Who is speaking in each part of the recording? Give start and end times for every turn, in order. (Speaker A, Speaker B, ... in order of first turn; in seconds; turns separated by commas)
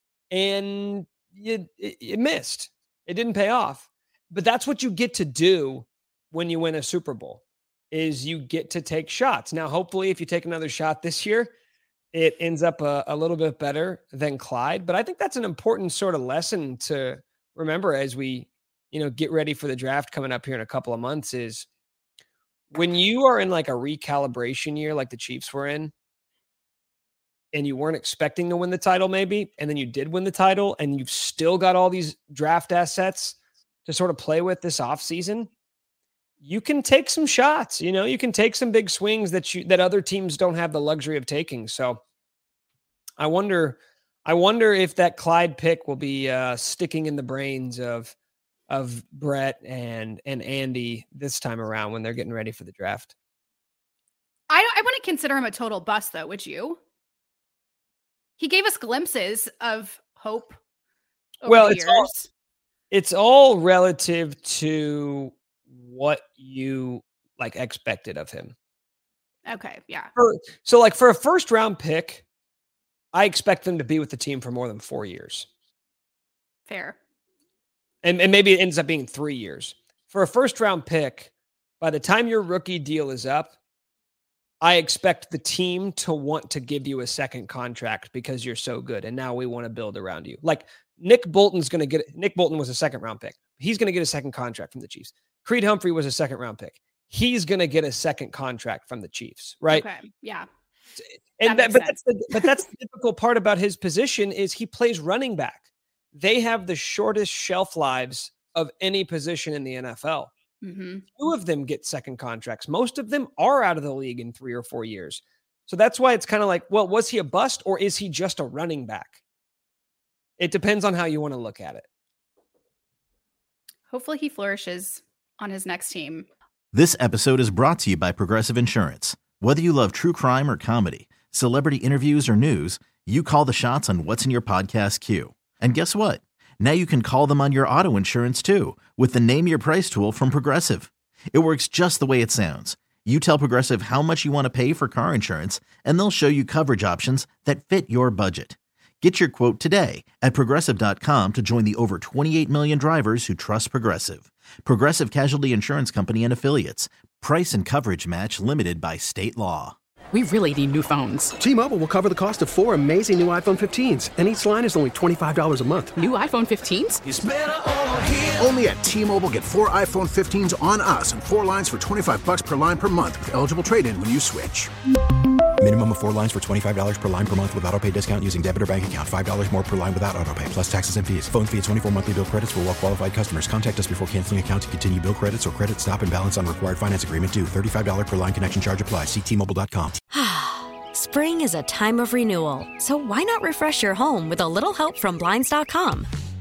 Speaker A: 0.3-11.5, Speaker A: 12.1-21.6, Speaker A: 22.7-25.9, Speaker A: 27.5-35.5, Speaker A: 36.4-42.0, Speaker A: 43.2-48.1, Speaker A: 48.7-53.1, Speaker B: 54.5-56.8, Speaker B: 58.4-60.6, Speaker B: 61.4-62.3, Speaker A: 61.4-62.1, Speaker A: 62.9-68.5, Speaker B: 69.5-70.1, Speaker A: 70.2-72.2, Speaker A: 73.1-75.5, Speaker B: 76.7-77.0, Speaker A: 78.0-83.5, Speaker A: 84.6-99.8, Speaker B: 99.7-100.5, Speaker A: 101.4-110.3, Speaker B: 101.4-102.4, Speaker B: 110.6-111.1, Speaker A: 111.2-119.2, Speaker A: 120.4-121.8, Speaker B: 123.9-126.3, Speaker C: 126.7-159.8, Speaker D: 160.1-161.3, Speaker E: 161.4-166.1, Speaker D: 165.9-167.0, Speaker F: 167.0-174.7, Speaker G: 175.6-190.0, Speaker H: 190.1-196.1